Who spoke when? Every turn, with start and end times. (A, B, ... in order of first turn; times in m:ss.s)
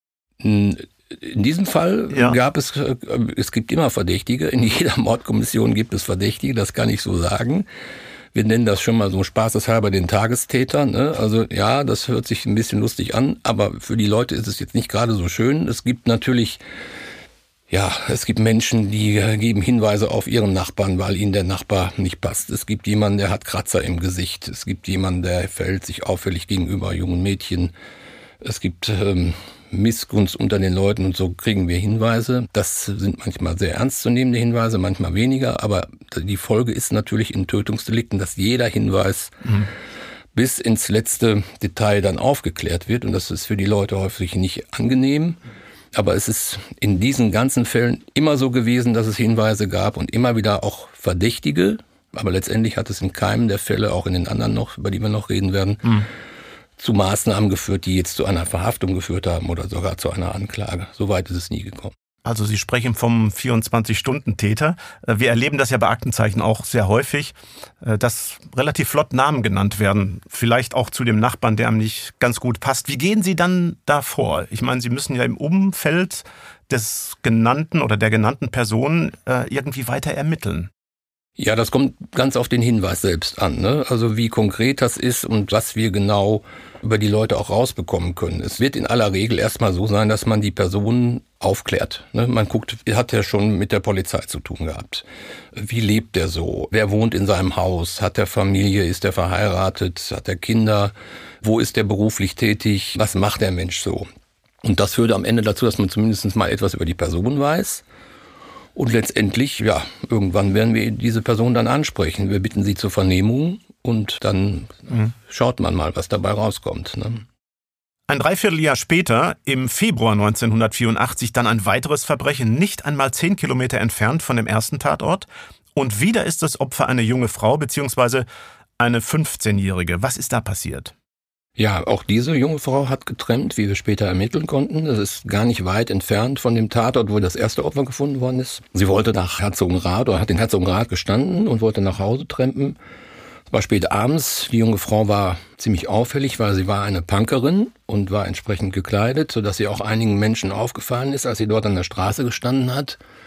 0:00.4-0:07.6 A
0:02.1-0:02.4 B
0:08.3-0:16.6 A
0:17.7-0:27.7 A
0:28.4-0:39.4 A
0:40.3-0:45.4 A
0:45.9-0:55.9 A
0:56.8-1:02.0 A
1:02.2-1:20.7 B
1:21.4-1:44.1 A
1:44.6-1:47.8 A
1:48.7-1:57.2 A
1:58.1-2:08.2 B
2:08.8-2:10.9 B
2:11.6-2:22.8 A
2:23.5-2:33.0 A